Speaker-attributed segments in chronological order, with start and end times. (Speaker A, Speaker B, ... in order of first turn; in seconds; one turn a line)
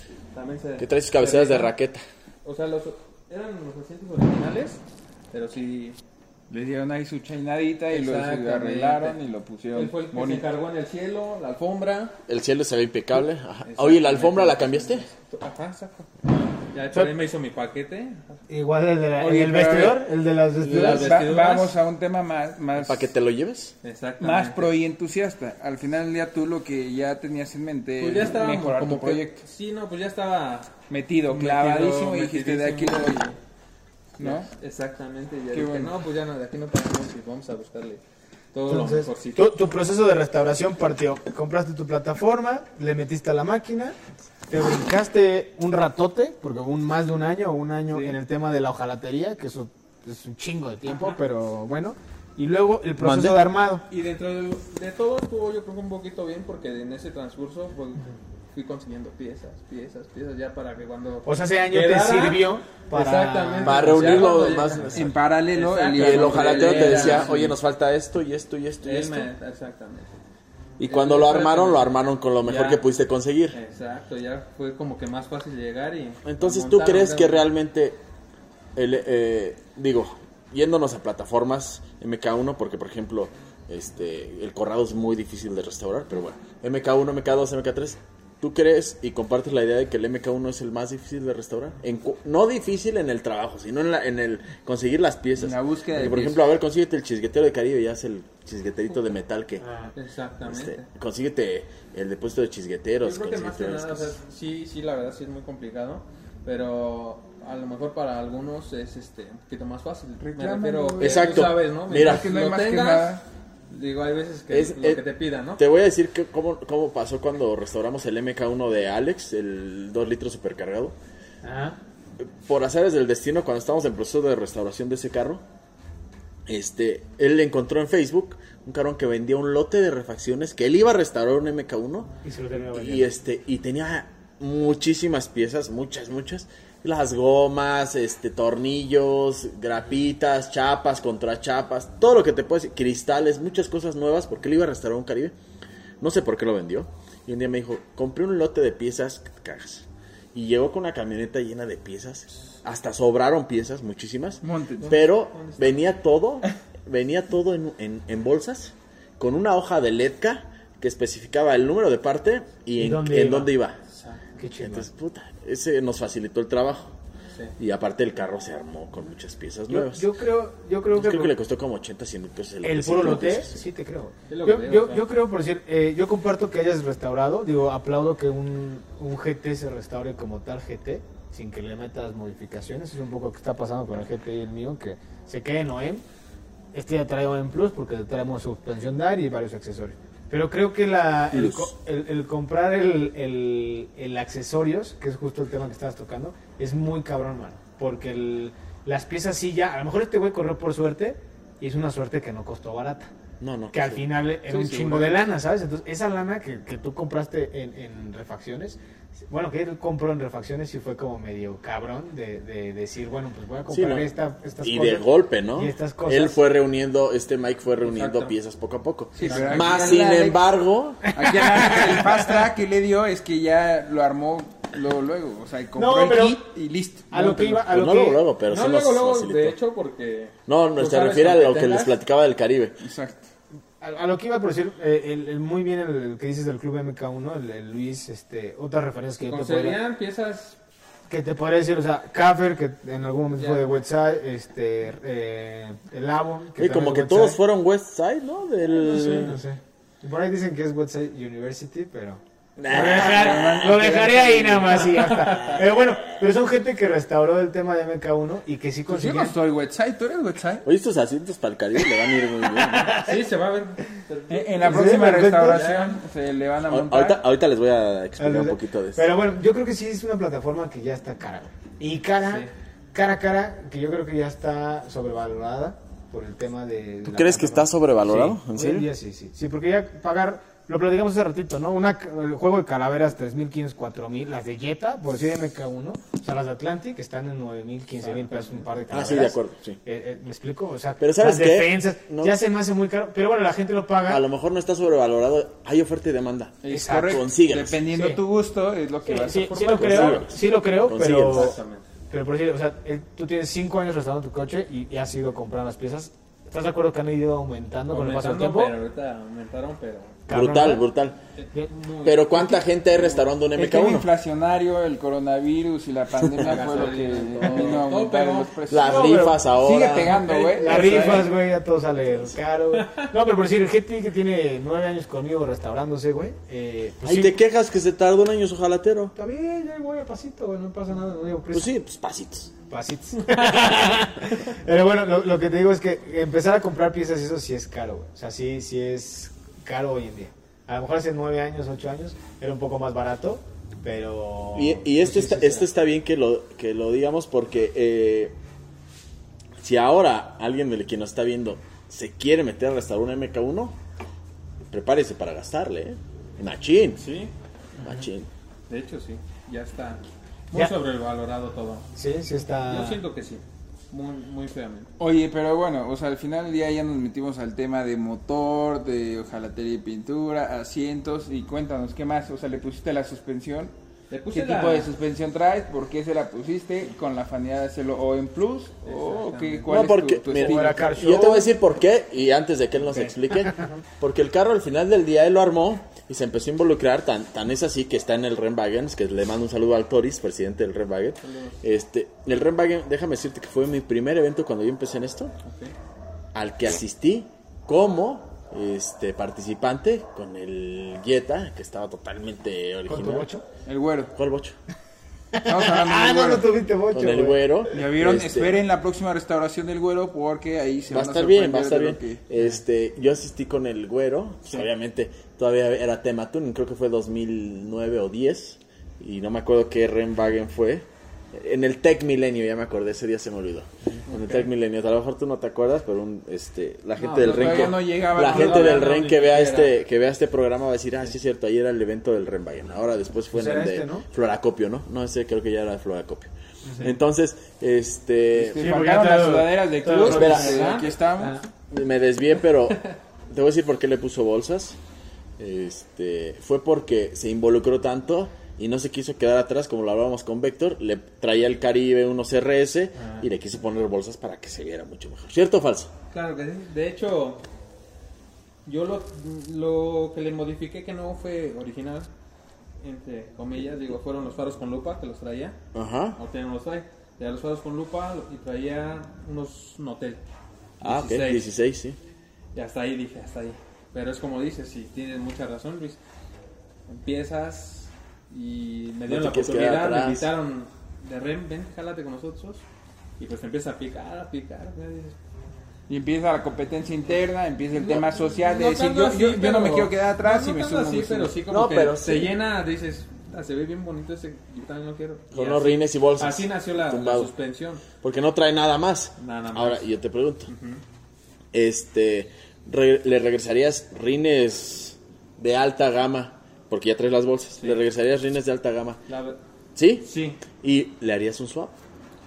Speaker A: 0.3-1.7
Speaker B: 0.8-2.0
Speaker A: 2.4-4.8
Speaker A: 5.3-6.0
Speaker C: 6.5-10.4
Speaker A: 7.9-9.2
Speaker A: 9.7-12.2
Speaker B: 12.3-15.1
Speaker A: 13.6-16.1
Speaker A: 16.7-18.4
Speaker D: 18.5-21.2
Speaker A: 19.2-20.0
Speaker C: 19.2-19.9
Speaker A: 20.6-21.8
Speaker C: 20.8-23.1
Speaker B: 22.8-23.7
Speaker A: 23.8-24.7
Speaker C: 24.2-29.4
Speaker A: 28.0-30.7
Speaker C: 30.9-33.2
Speaker A: 31.3-33.4
Speaker C: 34.2-34.5
Speaker A: 34.2-38.0
Speaker C: 35.5-36.0
Speaker A: 38.5-39.5
Speaker D: 38.7-44.0
Speaker D: 44.5-53.9
Speaker A: 53.0-53.4
Speaker A: 53.9-67.3
Speaker D: 61.2-65.1
Speaker B: 63.6-65.1
Speaker C: 64.9-67.6
Speaker B: 65.9-69.3
Speaker A: 68.8-70.2
Speaker B: 70.8-73.6
Speaker A: 70.9-71.9
Speaker A: 72.4-72.8
Speaker A: 73.5-77.5
Speaker B: 76.2-78.0
Speaker B: 78.8-99.7
Speaker C: 95.4-96.5
Speaker D: 99.6-99.9
Speaker A: 100.0-100.9
Speaker B: 100.5-104.1
Speaker A: 103.0-113.2
Speaker C: 110.2-113.2
Speaker B: 111.0-112.3
Speaker A: 113.7-115.6
Speaker B: 114.5-115.0
Speaker B: 115.6-121.0
Speaker D: 121.4-121.8
Speaker B: 122.2-125.4
Speaker B: 126.5-132.1
Speaker D: 132.2-133.1
Speaker B: 132.7-145.3
Speaker B: 146.0-163.8
Speaker C: 154.4-155.0
Speaker A: 154.8-155.9
Speaker D: 162.8-163.5
Speaker A: 163.9-164.2
Speaker D: 164.4-164.9
Speaker B: 164.6-166.9
Speaker B: 167.6-170.1
Speaker D: 169.7-171.4
Speaker B: 170.9-173.6
Speaker D: 172.6-186.0
Speaker A: 174.3-175.0
Speaker D: 186.7-203.1
Speaker B: 191.3-191.7
Speaker B: 203.4-204.0
Speaker D: 203.7-216.4
Speaker C: 204.5-205.2
Speaker B: 213.7-214.1
Speaker B: 214.6-221.1
Speaker A: 217.8-218.4
Speaker A: 219.2-220.0
Speaker C: 219.2-220.4
Speaker D: 219.2-219.8
Speaker C: 221.1-227.7
Speaker D: 221.2-222.4
Speaker D: 225.8-226.4
Speaker D: 227.1-228.2
Speaker B: 227.6-229.6
Speaker A: 228.5-232.0
Speaker B: 230.5-232.8
Speaker C: 232.8-233.3
Speaker D: 233.8-239.8
Speaker A: 239.3-240.6
Speaker D: 241.1-247.4
Speaker A: 243.3-243.7
Speaker B: 246.6-249.4
Speaker D: 248.6-259.4
Speaker B: 252.6-253.5
Speaker C: 252.7-255.0
Speaker A: 255.0-255.6
Speaker C: 258.9-260.6
Speaker B: 260.6-263.0
Speaker A: 262.8-266.0
Speaker C: 264.3-267.2
Speaker D: 264.6-265.7
Speaker B: 266.7-269.1
Speaker D: 268.2-294.2
Speaker A: 272.2-272.5
Speaker B: 277.1-278.9
Speaker B: 288.9-289.8
Speaker B: 291.0-292.3
Speaker B: 294.1-297.8
Speaker C: 296.6-300.2
Speaker D: 296.7-297.2
Speaker D: 297.9-298.2
Speaker D: 299.1-301.6
Speaker B: 299.6-301.6
Speaker A: 301.1-301.9
Speaker D: 302.1-308.7
Speaker A: 307.9-310.2
Speaker D: 310.3-310.9
Speaker B: 310.3-311.2
Speaker A: 311.4-313.3
Speaker B: 312.0-314.1
Speaker C: 313.6-321.3
Speaker A: 316.4-318.5
Speaker B: 318.7-320.3
Speaker D: 318.8-319.5
Speaker D: 320.2-327.4
Speaker A: 320.4-320.9
Speaker A: 322.7-323.1
Speaker B: 327.0-329.1
Speaker D: 329.1-331.7
Speaker B: 331.5-332.5
Speaker D: 332.7-345.7
Speaker B: 344.6-348.4
Speaker B: 349.6-353.8
Speaker B: 354.7-357.0
Speaker A: 357.0-357.3
Speaker D: 357.8-358.1
Speaker B: 357.8-358.3
Speaker A: 358.7-361.9
Speaker D: 361.9-363.0
Speaker A: 362.7-364.9
Speaker C: 365.0-373.7
Speaker A: 374.1-374.9
Speaker C: 374.3-381.0
Speaker A: 378.9-379.7
Speaker B: 379.7-395.3
Speaker D: 380.3-381.5
Speaker A: 391.2-391.6
Speaker A: 395.4-395.7
Speaker B: 396.3-403.3
Speaker D: 402.9-403.4
Speaker C: 403.7-404.1
Speaker B: 404.1-404.6
Speaker D: 405.3-407.4
Speaker C: 405.4-406.5
Speaker B: 406.9-408.6
Speaker C: 407.7-412.2
Speaker B: 410.9-438.6
Speaker A: 424.1-424.5
Speaker A: 427.0-429.7
Speaker C: 427.2-428.9
Speaker D: 433.3-434.1
Speaker D: 436.7-436.9
Speaker C: 438.4-441.4
Speaker D: 438.5-441.4
Speaker B: 440.0-440.7
Speaker A: 440.2-441.0
Speaker B: 441.7-444.8
Speaker B: 445.4-455.9
Speaker A: 453.0-453.2
Speaker A: 456.1-457.4
Speaker A: 458.6-462.1
Speaker A: 462.8-465.6
Speaker B: 465.7-466.2
Speaker A: 466.2-470.2
Speaker A: 470.8-471.5
Speaker B: 470.8-472.0
Speaker A: 472.5-476.0
Speaker A: 476.9-482.6
Speaker B: 479.1-480.3
Speaker A: 483.2-485.2
Speaker C: 485.9-491.4
Speaker A: 487.8-497.8
Speaker B: 491.5-492.4
Speaker B: 495.3-497.3
Speaker B: 498.0-500.5
Speaker A: 499.2-499.8
Speaker A: 500.5-500.8
Speaker B: 501.5-509.0
Speaker A: 507.6-507.8
Speaker A: 509.1-509.4
Speaker B: 509.8-511.7
Speaker A: 510.0-510.4